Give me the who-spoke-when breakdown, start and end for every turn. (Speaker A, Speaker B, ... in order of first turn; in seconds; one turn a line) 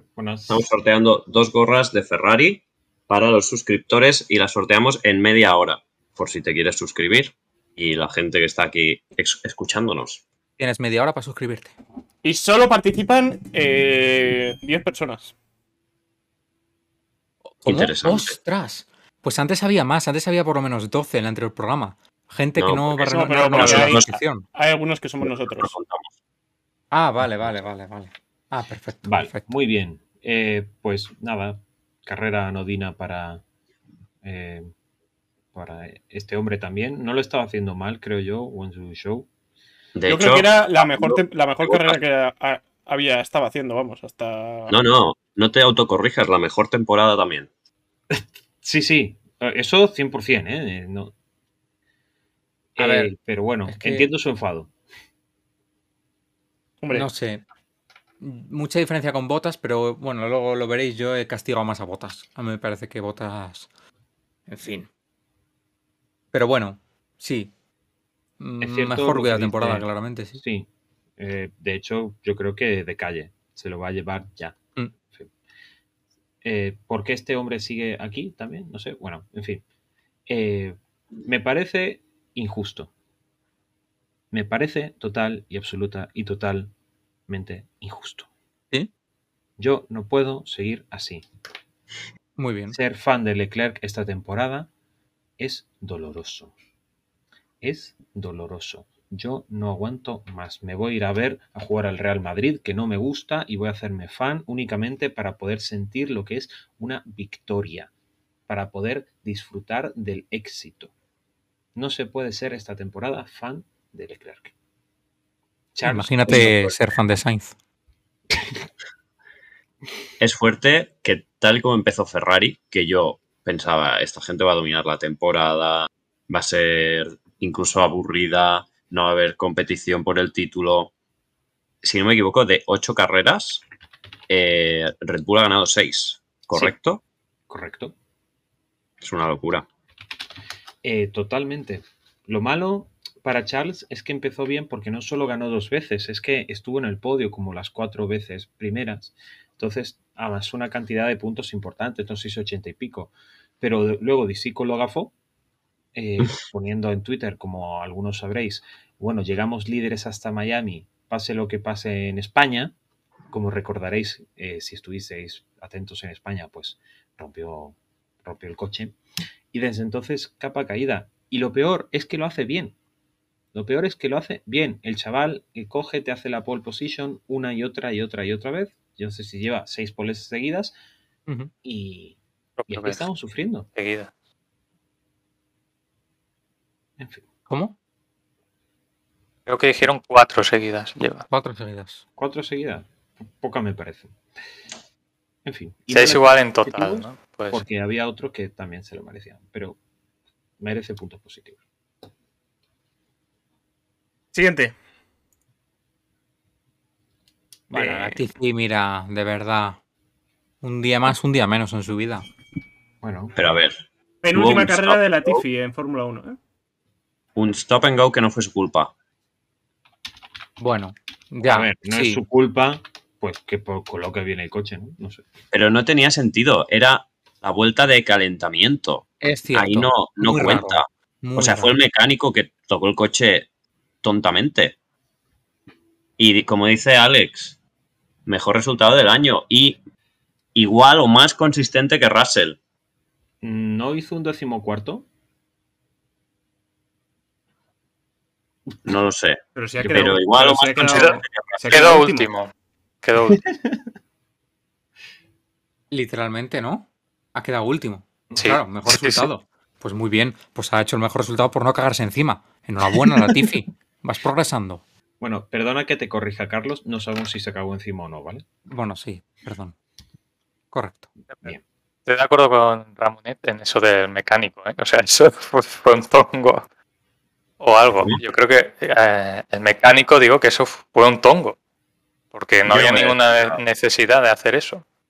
Speaker A: 0.2-0.6
Speaker B: 0.5-10.2
Speaker C: 10.6-11.7
Speaker D: 12.2-15.3
Speaker C: 17.5-24.4
Speaker B: 17.6-18.4
Speaker B: 22.6-24.1
Speaker D: 23.1-25.7
Speaker B: 25.2-26.1
Speaker C: 26.9-29.5
Speaker A: 29.1-33.4
Speaker A: 34.2-34.7
Speaker A: 35.5-39.3
Speaker B: 40.0-42.0
Speaker D: 40.1-44.8
Speaker B: 44.7-47.5
Speaker A: 48.1-51.1
Speaker A: 52.8-54.7
Speaker C: 52.8-53.1
Speaker C: 53.7-54.1
Speaker D: 56.8-57.1
Speaker C: 56.9-57.4
Speaker C: 58.2-63.7
Speaker C: 64.5-64.9
Speaker C: 66.3-67.5
Speaker C: 68.4-70.4
Speaker A: 68.6-70.7
Speaker A: 71.2-74.6
Speaker A: 76.4-79.6
Speaker A: 80.3-82.9
Speaker A: 84.3-86.7
Speaker A: 87.3-88.3
Speaker A: 89.6-91.2
Speaker C: 92.4-92.8
Speaker A: 92.7-94.7
Speaker A: 95.4-96.5
Speaker A: 97.6-107.9
Speaker A: 108.5-110.9
Speaker A: 111.8-114.5
Speaker A: 115.8-116.7
Speaker C: 115.8-117.5
Speaker B: 116.3-116.7
Speaker B: 120.2-130.9
Speaker B: 131.8-133.6
Speaker B: 134.3-137.0
Speaker A: 137.5-137.9
Speaker B: 139.0-139.7
Speaker A: 140.8-155.1
Speaker A: 155.9-162.8
Speaker A: 163.3-169.0
Speaker A: 169.5-172.8
Speaker A: 173.5-180.7
Speaker A: 181.6-182.2
Speaker E: 182.6-183.1
Speaker A: 182.7-183.7
Speaker E: 183.8-184.1
Speaker A: 187.0-187.2
Speaker C: 187.5-187.8
Speaker E: 189.5-191.2
Speaker C: 191.3-192.0
Speaker A: 192.2-192.9
Speaker A: 193.4-194.2
Speaker A: 195.4-199.8
Speaker E: 195.9-197.6
Speaker A: 200.6-201.6
Speaker D: 204.3-204.7
Speaker C: 207.7-209.8
Speaker D: 207.8-208.2
Speaker C: 210.6-212.2
Speaker A: 213.0-213.4
Speaker B: 213.3-213.8
Speaker D: 214.2-216.4
Speaker B: 214.3-215.4
Speaker B: 217.4-218.9
Speaker C: 220.6-222.2
Speaker A: 221.4-225.3
Speaker B: 225.5-230.9
Speaker C: 229.2-231.8
Speaker B: 231.4-233.5
Speaker B: 234.0-234.8
Speaker B: 236.2-237.6
Speaker B: 238.3-239.8
Speaker B: 240.6-242.6
Speaker A: 243.4-245.1
Speaker B: 248.8-251.9
Speaker D: 249.6-252.3
Speaker A: 249.8-250.2
Speaker E: 250.9-251.2
Speaker E: 251.7-252.5
Speaker E: 253.0-253.4
Speaker A: 253.3-253.8
Speaker C: 255.9-264.8
Speaker E: 258.4-259.3
Speaker A: 265.2-268.4
Speaker C: 268.7-269.8
Speaker C: 270.7-271.1
Speaker E: 272.1-276.7
Speaker E: 277.6-281.6
Speaker E: 282.3-284.8
Speaker B: 282.7-283.6